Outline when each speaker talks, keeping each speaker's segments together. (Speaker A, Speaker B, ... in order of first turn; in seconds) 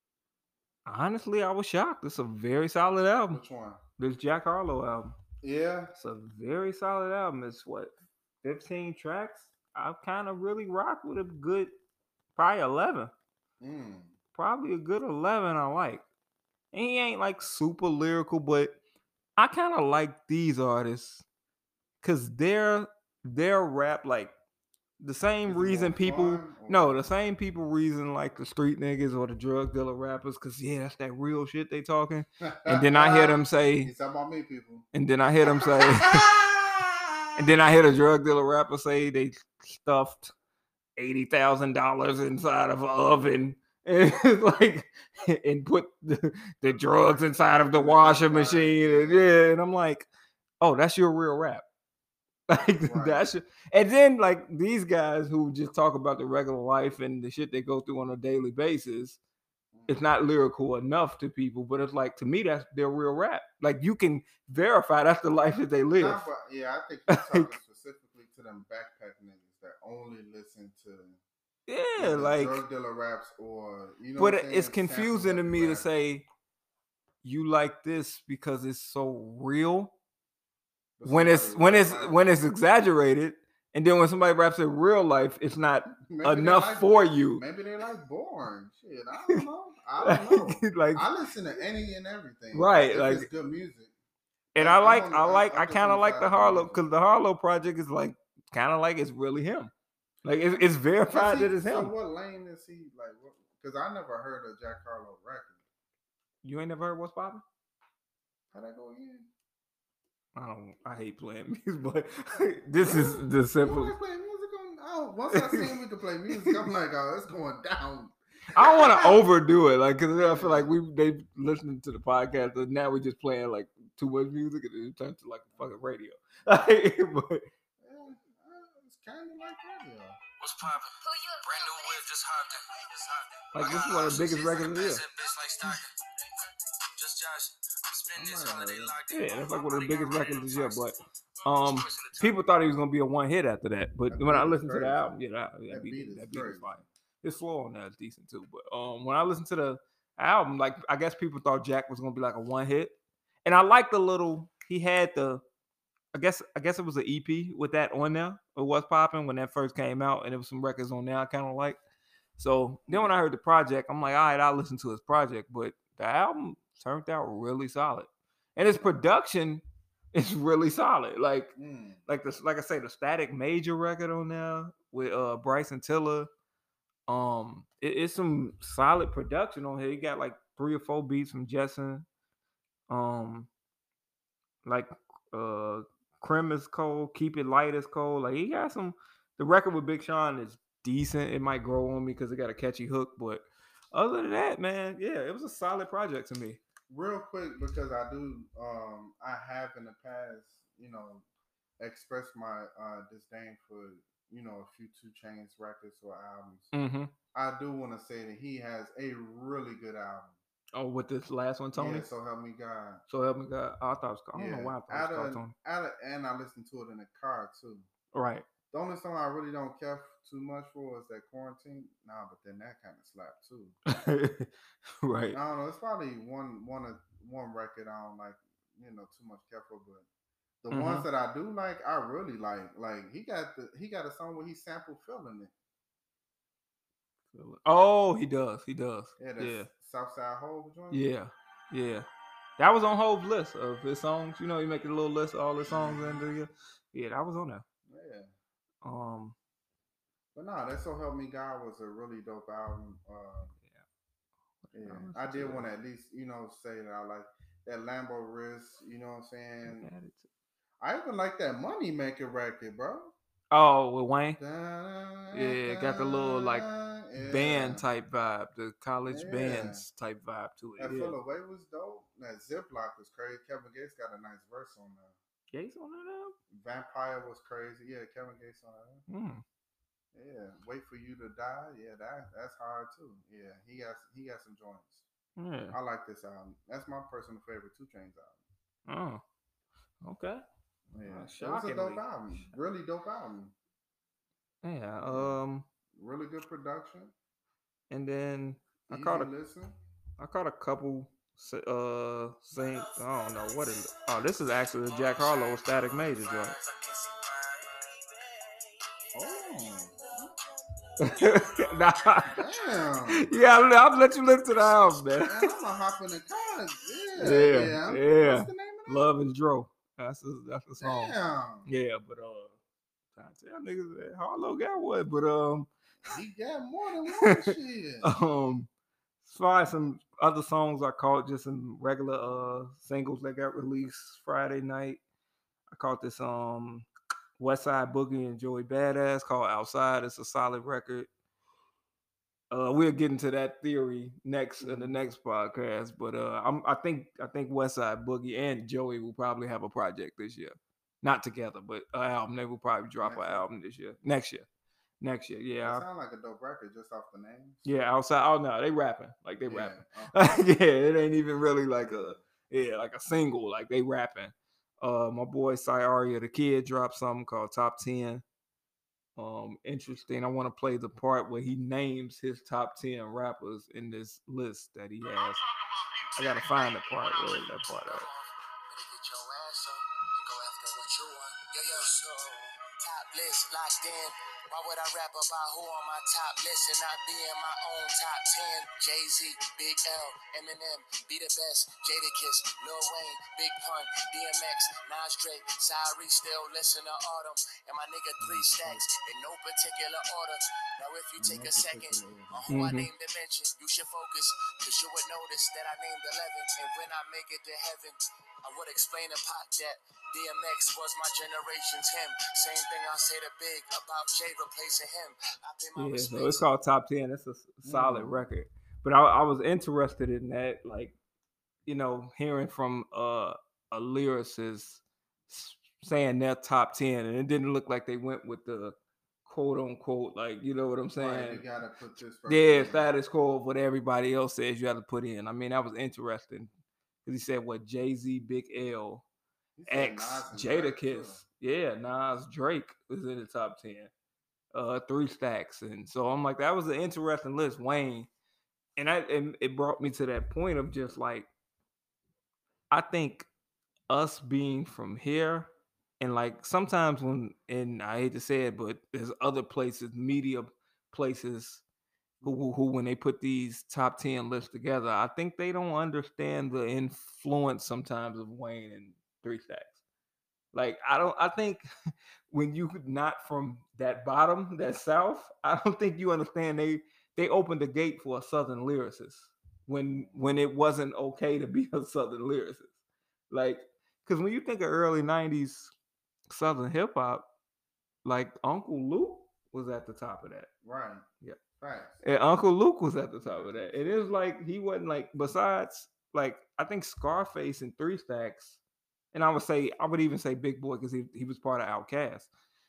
Speaker A: 0.9-3.4, 4.0-5.2, 6.0-11.7, 12.4-13.1, 14.4-16.1, 16.7-18.8, 19.4-21.2, 22.0-24.3, 25.0-33.9, 34.9-36.3, 37.4-40.3, 41.0-50.1, 50.6-51.6, 52.5-59.2, 59.9-66.2, 67.1-67.5, 71.7-72.6, 74.2-76.2, 77.2-80.0, 81.1-87.4, 90.0-91.1, 92.5-93.3, 94.5-99.7, 100.2-101.9, 106.4-107.4, 110.3-114.0, 115.3-115.8, 116.3-116.6, 118.5-127.5, 133.5-135.0, 139.1-155.4, 156.1-161.8, 162.4-171.5, 172.1-176.3, 177.1-182.1, 182.9-183.5, 184.7-196.6, 206.7-207.1, 210.7-212.1, 213.1-215.5, 218.1-218.5, 223.9-224.5, 225.0-225.4, 230.7-231.1, 237.3-239.7, 240.9-242.1, 242.6-247.7, 248.8-249.4, 254.7-255.7, 259.7-260.3, 263.5-264.4, 265.3-266.7, 267.2-271.2, 275.5-276.3, 279.1-279.4, 285.4-285.8, 288.9-289.2, 290.0-290.4, 291.1-292.0, 294.6-295.7, 297.9-299.3, 300.2-306.6, 311.0-312.4, 313.1-315.4, 317.2-321.1, 321.7-322.6, 323.2-325.7, 327.1-328.7, 329.2-335.0, 335.7-336.9, 337.4-341.1, 342.5-354.5, 355.0-355.8, 357.6-368.2, 369.2-375.4, 376.2-378.1, 402.5-402.9, 415.8-421.0, 421.7-428.8, 429.3-431.4, 432.3-436.5, 437.1-439.0, 439.7-443.9, 444.5-448.1, 448.8-451.3, 452.7-453.3, 453.9-461.6, 462.2-469.8, 470.5-471.6, 472.3-482.7, 483.3-485.7, 486.3-487.3, 488.1-490.5, 492.0-498.6, 499.1-502.3
Speaker B: 3.3-3.8, 5.4-5.9, 13.6-14.2, 25.5-27.0, 32.4-34.9, 35.4-37.1, 47.0-49.3, 52.8-53.3, 59.7-60.0, 66.0-71.2, 72.0-75.9, 81.0-82.2, 86.0-93.9, 94.6-96.8, 100.5-105.6, 108.5-109.3, 112.8-119.2, 120.2-120.7, 127.8-130.2, 138.2-138.9, 144.1-145.1, 145.7-146.8, 162.9-163.2, 168.6-168.9, 171.6-172.0, 196.9-201.3, 201.8-206.7, 207.3-210.4, 211.8-213.0, 214.3-217.8, 218.7-223.8, 225.3-230.1, 230.6-235.5, 239.2-241.1, 245.7-246.1, 247.9-248.3, 250.3-253.5, 254.7-259.9, 260.8-263.1, 264.4-267.8, 269.1-269.9, 270.8-275.2, 276.5-279.0, 280.1-285.1, 285.7-288.4, 290.9-293.5, 295.0-295.4, 295.9-297.1, 298.9-299.8, 309.1-310.4, 312.3-313.3, 315.2-319.1, 320.8-321.7, 326.1-328.1, 344.6-345.0, 353.0-353.5, 355.6-357.7, 359.5-360.4, 361.8-362.2, 398.2-398.8, 401.2-402.5, 417.6-418.3, 431.0-432.9, 439.6-441.2, 479.9-480.5, 490.6-491.1, 491.6-492.0, 493.2-494.1
Speaker C: 130.4-135.9, 137.0-140.9, 141.5-142.4, 304.6-309.9, 311.0-312.9, 314.4-315.0, 375.1-416.5